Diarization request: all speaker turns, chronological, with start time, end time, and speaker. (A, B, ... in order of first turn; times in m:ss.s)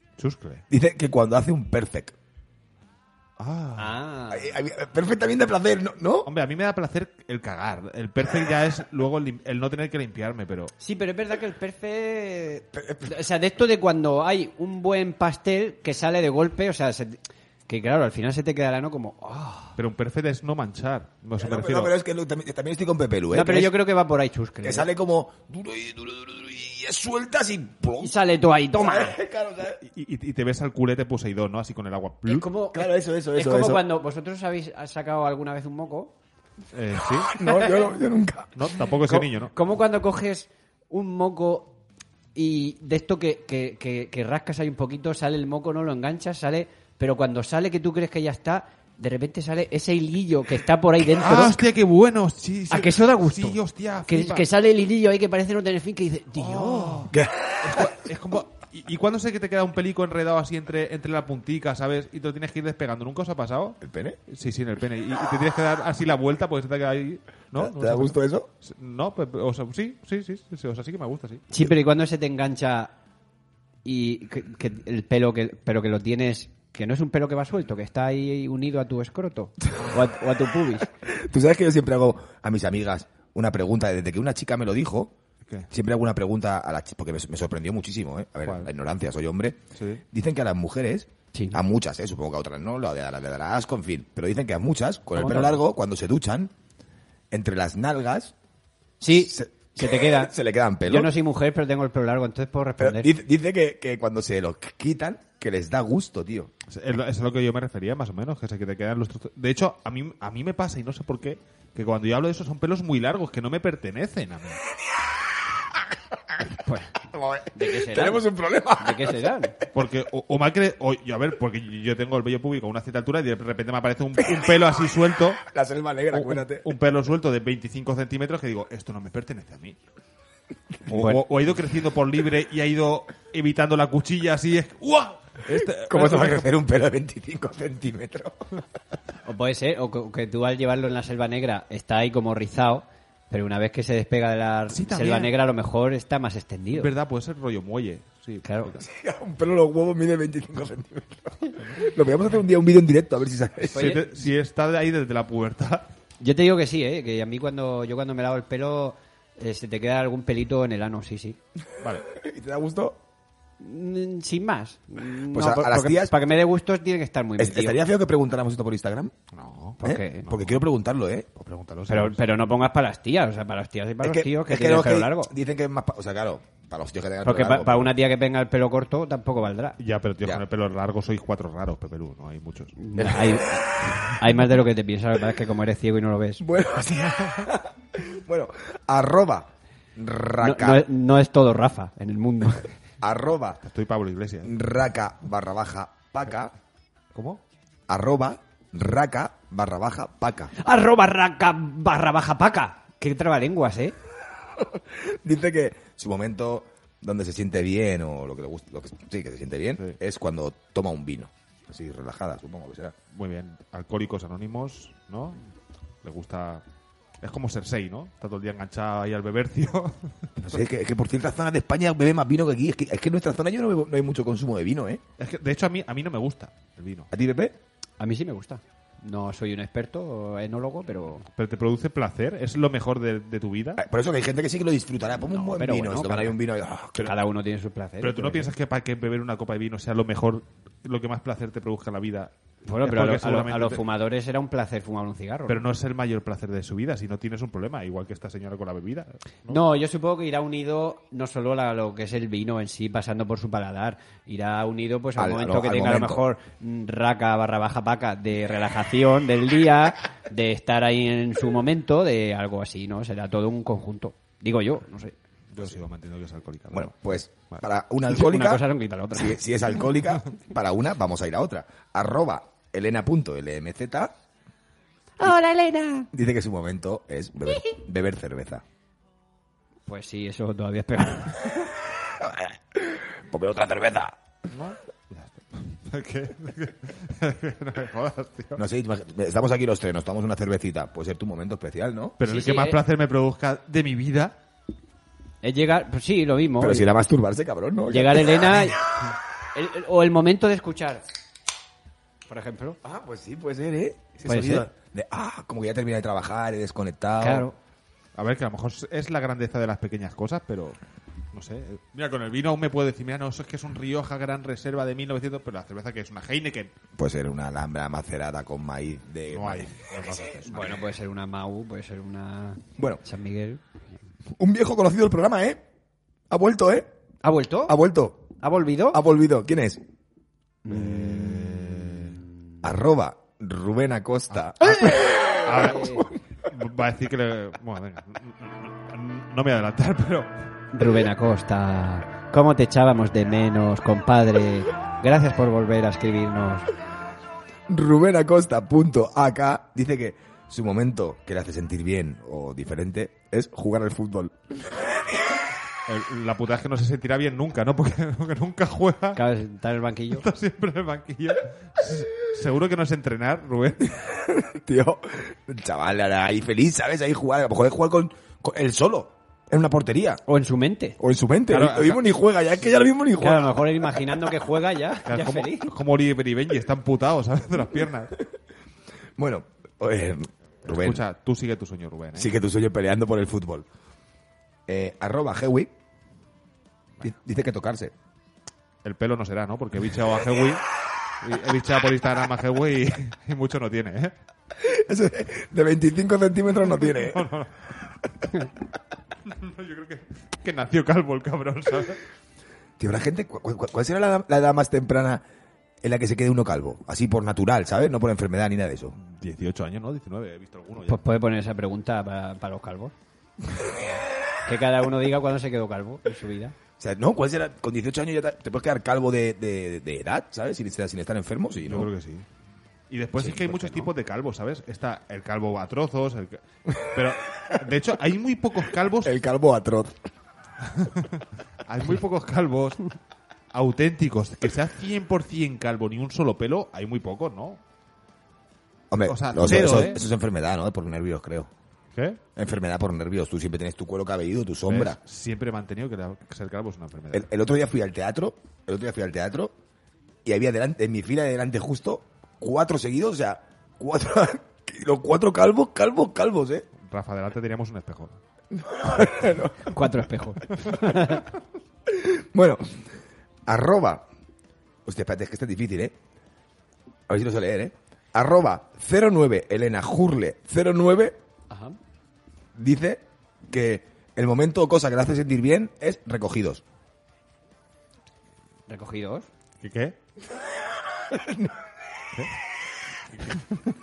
0:00.2-0:00.6 A
0:00.7-0:02.2 B
0:03.4-0:04.0 A
0:03.8-0:04.6 C
0:04.3-0:06.3 B
0:06.3-0:10.7 A
0:10.8-0:19.8 C
0:12.8-0:13.1 B
0:19.8-0:21.9 A
0:21.4-0:23.7 B
0:23.3-0:24.9 C
0:24.6-0:28.1 B
0:28.0-0:29.2 C
0:28.7-0:29.8 B
0:29.8-0:32.5 A
0:32.3-0:36.1 C
0:32.7-0:33.8 B
0:36.7-0:37.4 A
0:37.3-0:38.5 B
0:37.4-0:37.9 C
0:38.6-0:39.6 A
0:39.1-0:41.8 C
0:42.4-0:51.6 C
0:51.2-0:54.5 A
0:52.7-0:57.1 C
0:56.4-1:11.5 A
0:57.1-0:57.9 B
1:03.8-1:04.2 B
1:07.6-1:08.5 B
1:11.5-1:12.9 C
1:13.8-1:20.9 C
1:21.0-1:25.1 B
1:25.7-1:29.6 B
1:28.4-1:28.7 A
1:29.8-1:30.0 A
1:30.1-1:36.5 B
1:31.3-1:31.6 C
1:35.2-1:35.6 C
1:37.3-1:38.3 B
1:39.0-1:40.3 C
1:39.1-1:41.1 B
1:40.8-1:43.1 C
1:42.8-1:46.5 B
1:46.7-1:54.6 A
1:56.5-1:59.6 C
1:57.1-1:59.4 B
1:59.7-2:05.4 A
2:04.2-2:04.5 B
2:05.4-2:06.7 B
2:06.1-2:09.8 A
2:10.9-2:16.5 A
2:10.9-2:11.2 C
2:15.6-2:18.4 B
2:19.2-2:26.9 C
2:24.7-2:25.3 A
2:26.7-2:28.8 A
2:28.4-2:28.8 C
2:28.8-2:34.0 B
2:33.7-2:34.2 C
2:33.7-2:35.9 A
2:36.2-2:41.4 C
2:42.0-2:43.0 B
2:43.6-2:47.8 C
2:45.3-2:46.1 B
2:47.4-2:49.1 B
2:49.3-2:50.6 A
2:49.8-2:50.3 C
2:49.8-2:51.3 B
2:51.4-2:52.2 A
2:51.9-2:55.3 C
2:54.0-2:57.9 B
2:57.2-2:59.8 C
2:59.8-3:02.8 A
3:02.8-3:06.5 C
3:03.0-3:04.1 B
3:06.4-3:10.8 B
3:10.4-3:12.7 C
3:13.0-3:13.6 B
3:13.6-3:14.5 A
3:14.4-3:16.5 B
3:17.2-3:17.4 A
3:17.9-3:20.5 B
3:20.6-3:24.0 C
3:24.6-3:33.0 B
3:33.1-3:35.4 A
3:36.0-3:36.6 A
3:37.2-3:40.6 A
3:40.4-3:45.0 B
3:45.2-3:47.1 A
3:47.1-3:47.6 B
3:48.0-3:51.3 C
3:51.4-3:53.8 A
3:53.8-3:57.2 B
3:55.3-3:56.4 C
3:57.0-3:58.5 C
3:58.0-4:02.3 A
4:02.7-4:05.6 C
4:02.8-4:03.8 A
4:05.5-4:09.6 A
4:09.5-4:25.2 C
4:15.2-4:16.2 B
4:25.5-4:27.0 A
4:26.7-4:34.1 B
4:28.1-4:29.4 C
4:35.2-4:36.1 C
4:36.1-4:38.6 B
4:39.9-4:41.7 C
4:42.0-4:44.2 B
4:44.5-4:48.6 A
4:48.6-4:52.2 B
4:52.2-4:54.4 A
4:52.2-4:52.8 C
4:55.4-4:56.9 C
4:56.6-4:58.8 B
4:57.9-4:58.9 C
4:59.5-5:01.0 C
5:02.3-5:02.8 C
5:02.8-5:07.5 B
5:04.2-5:04.7 C
5:07.2-5:07.6 C
5:08.2-5:10.8 A
5:11.3-5:16.7 A
5:17.0-5:19.9 B
5:19.3-5:20.8 A
5:20.4-5:23.6 C
5:24.4-5:25.6 B
5:26.3-5:26.9 B
5:27.2-5:27.8 C
5:27.7-5:28.4 B
5:28.4-5:29.0 C
5:28.9-5:29.8 B
5:30.6-5:32.3 C
5:30.7-5:32.2 A
5:32.6-5:36.1 B
5:34.3-5:40.3 A
5:35.2-5:36.1 C
5:40.7-5:46.7 C
5:47.7-5:55.0 B
5:55.9-5:59.2 A
5:59.2-6:00.2 C
6:00.1-6:04.0 A
6:04.0-6:10.2 B
6:10.3-6:11.0 C
6:11.0-6:13.6 B
6:11.5-6:12.2 A
6:13.2-6:15.7 C
6:15.1-6:18.1 A
6:19.2-6:21.0 B
6:20.6-6:22.3 A
6:22.2-6:23.7 B
6:24.7-6:25.7 B
6:27.0-6:27.9 B
6:28.8-6:30.6 A
6:31.2-6:34.1 A
6:34.5-6:37.3 B
6:37.0-6:37.7 A
6:39.2-6:42.0 A
6:42.8-6:45.2 B
6:45.8-6:49.0 B
6:49.0-6:51.0 A
6:50.9-6:52.9 C
6:53.5-6:53.8 B
6:54.4-6:56.6 C
6:56.8-7:01.9 B
7:01.6-7:02.3 A
7:02.9-7:09.2 A
7:03.2-7:03.9 B
7:09.0-7:10.0 B
7:10.6-7:12.8 A
7:13.5-7:17.6 A
7:18.9-7:21.5 B
7:19.1-7:20.0 A
7:22.0-7:22.2 A
7:22.4-7:25.0 B
7:24.7-7:27.3 A
7:27.1-7:29.5 B
7:30.2-7:36.7 B
7:36.8-7:38.2 A
7:38.5-7:39.8 B
7:39.6-7:41.3 C
7:41.9-7:42.8 B
7:43.5-7:44.0 B
7:44.8-7:46.0 B
7:47.1-7:51.2 B
7:51.5-7:51.8 C
7:52.6-7:56.6 B
7:58.7-7:59.3 C
7:59.6-8:00.0 A
8:00.9-8:01.6 B
8:03.2-8:03.5 A